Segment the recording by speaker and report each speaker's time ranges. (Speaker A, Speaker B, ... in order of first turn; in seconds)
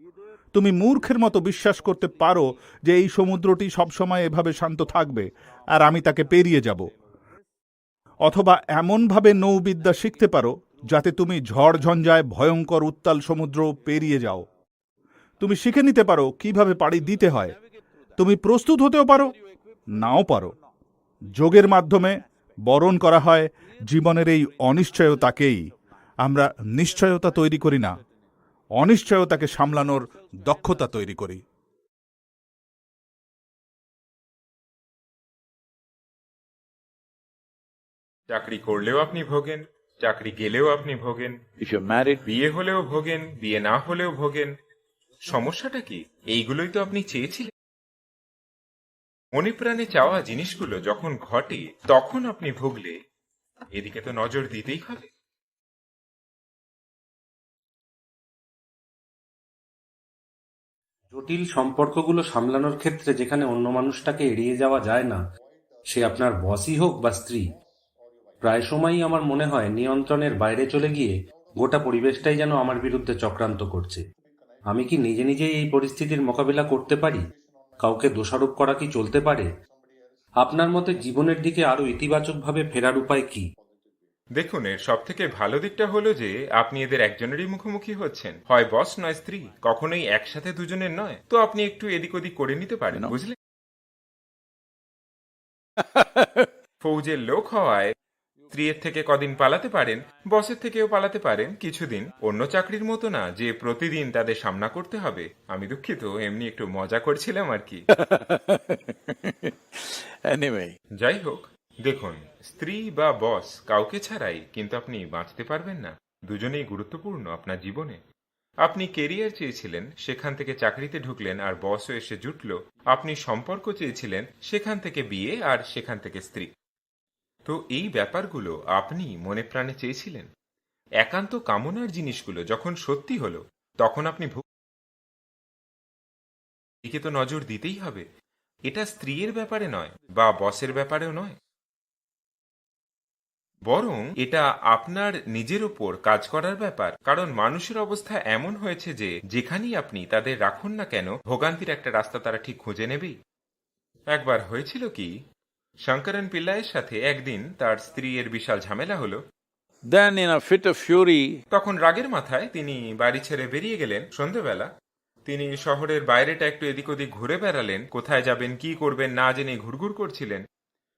Speaker A: 0.5-6.9, 8.3-14.4, 15.4-17.6, 18.2-19.3, 20.0-20.5, 21.4-22.2, 22.7-25.6, 26.2-27.9, 28.8-31.4
Speaker B: 38.3-41.4, 42.2-44.5, 45.3-47.5, 49.4-52.9, 53.8-55.1, 84.4-93.3, 96.8-97.9, 98.5-107.8, 111.0-118.0, 118.6-126.5, 127.5-130.3, 131.0-134.4, 136.8-138.1, 138.7-141.3, 143.7-153.2, 154.1-155.1, 155.9-159.2, 161.5-164.7, 165.3-170.4
Speaker C: 41.6-42.3, 92.9-93.2, 95.8-96.5, 107.9-110.8, 159.9-161.3
Speaker D: 61.1-65.2, 65.9-67.5, 68.4-74.0, 74.7-77.2, 77.8-79.5, 80.4-83.5